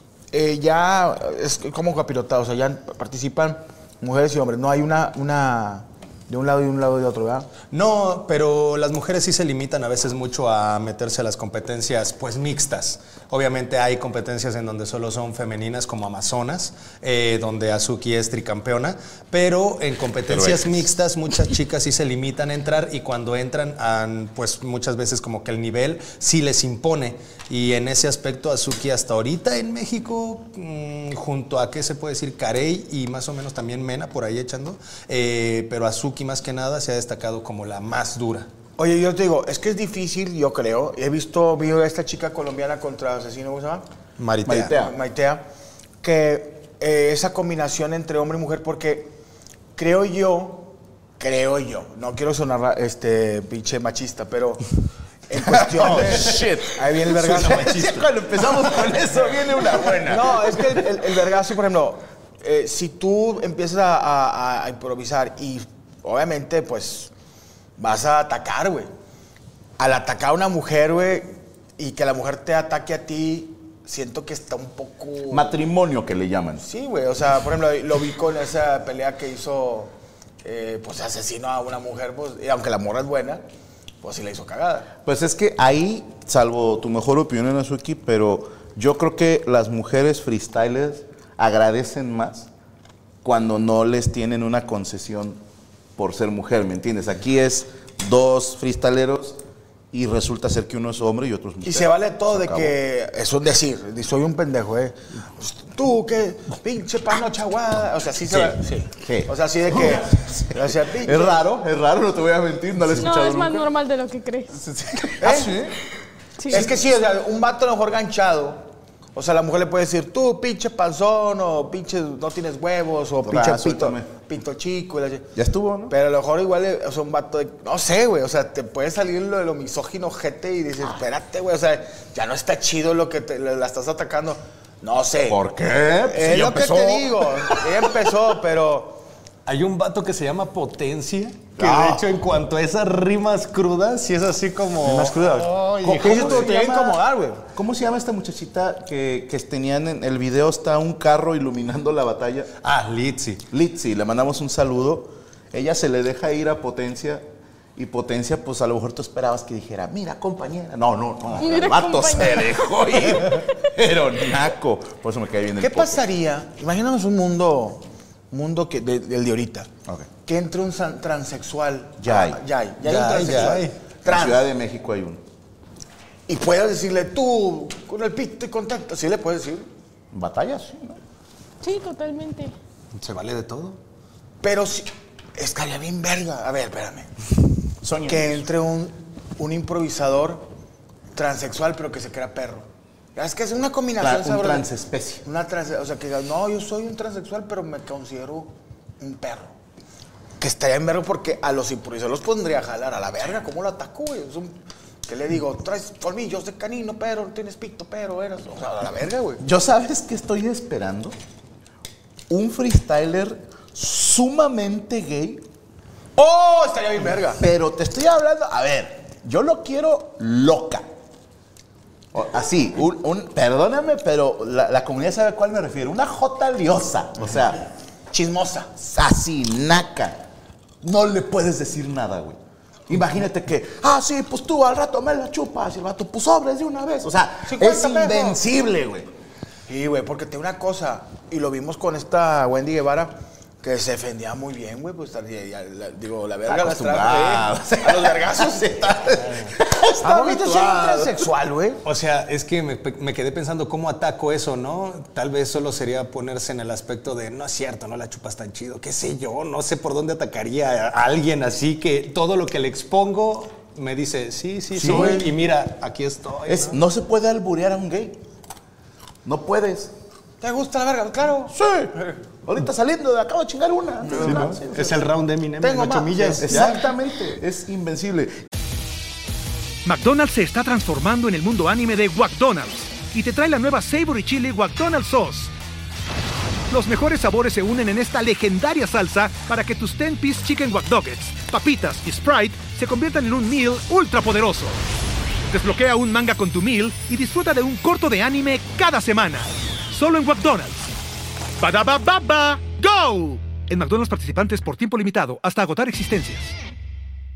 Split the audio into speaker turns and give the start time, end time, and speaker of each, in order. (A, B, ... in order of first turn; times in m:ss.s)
0:00.3-0:07.5 A
0:07.7-0:38.5 B
0:20.3-0:20.8 C
0:38.8-0:43.8 A
0:44.2-0:44.7 B
0:44.4-0:44.9 C
0:44.6-0:45.4 A
0:46.0-0:49.1 A
0:49.8-0:54.6 A
0:55.3-0:58.1 A
0:55.3-1:01.0 C
0:59.9-1:07.1 A
1:07.8-1:08.9 A
1:09.8-1:15.5 A
1:15.3-1:16.6 C
1:16.6-1:23.4 A
1:24.0-1:24.9 A
1:25.0-1:32.5 C
1:33.2-1:35.4 C
1:36.0-1:39.4 C
1:39.9-1:42.8 C
1:41.6-1:51.4 A
1:48.3-1:53.7 C
1:52.9-1:54.6 D
1:54.5-1:55.8 C
1:55.2-1:55.7 A
1:56.4-1:56.6 D
1:56.5-2:05.3 A
1:56.5-1:56.8 C
2:03.2-2:04.1 C
2:05.3-2:05.9 C
2:05.9-2:15.4 A
2:15.2-2:17.6 C
2:16.0-2:19.0 A
2:19.4-2:26.5 B
2:21.6-2:22.0 C
2:24.8-2:27.4 A
2:25.8-2:27.0 C
2:27.5-2:32.5 C
2:32.6-2:33.4 B
2:33.5-2:37.2 C
2:37.8-2:46.0 C
2:41.4-2:43.6 D
2:45.6-2:49.7 A
2:50.2-2:54.5 A
2:52.0-2:52.4 C
2:52.8-2:53.8 B
2:54.0-2:55.2 C
2:56.3-2:59.7 A
3:00.1-3:01.0 C
3:01.6-3:02.5 D
3:03.0-3:03.8 B
3:04.4-3:07.1 A
3:07.8-3:08.4 C
3:08.0-3:10.5 A
3:11.1-3:14.7 A
3:14.0-3:15.2 C
3:15.2-3:19.5 A
3:20.4-3:29.4 A
3:29.4-3:31.1 C
3:32.3-3:35.4 C
3:36.2-3:37.4 A
3:37.4-3:40.8 C
3:42.1-3:47.6 C
3:48.1-3:48.7 A
3:48.8-3:50.2 C
3:50.8-3:59.1 C
3:57.4-3:58.4 A
3:59.7-4:09.0 A
4:06.4-4:11.3 C
4:09.2-4:09.5 B
4:10.0-4:11.8 A
4:11.8-4:26.8 B
4:24.8-4:25.3 C
4:24.9-4:25.2 A
4:26.4-4:28.2 C
4:29.2-4:29.9 C
4:30.4-4:31.5 A
4:31.5-4:35.0 C
4:34.1-4:34.5 A
4:34.2-4:36.8 B
4:35.6-4:36.8 A
4:36.4-4:38.3 C
4:39.8-4:45.5 E
4:46.7-4:54.8 E
4:55.5-5:00.8 E
5:01.6-5:06.5 E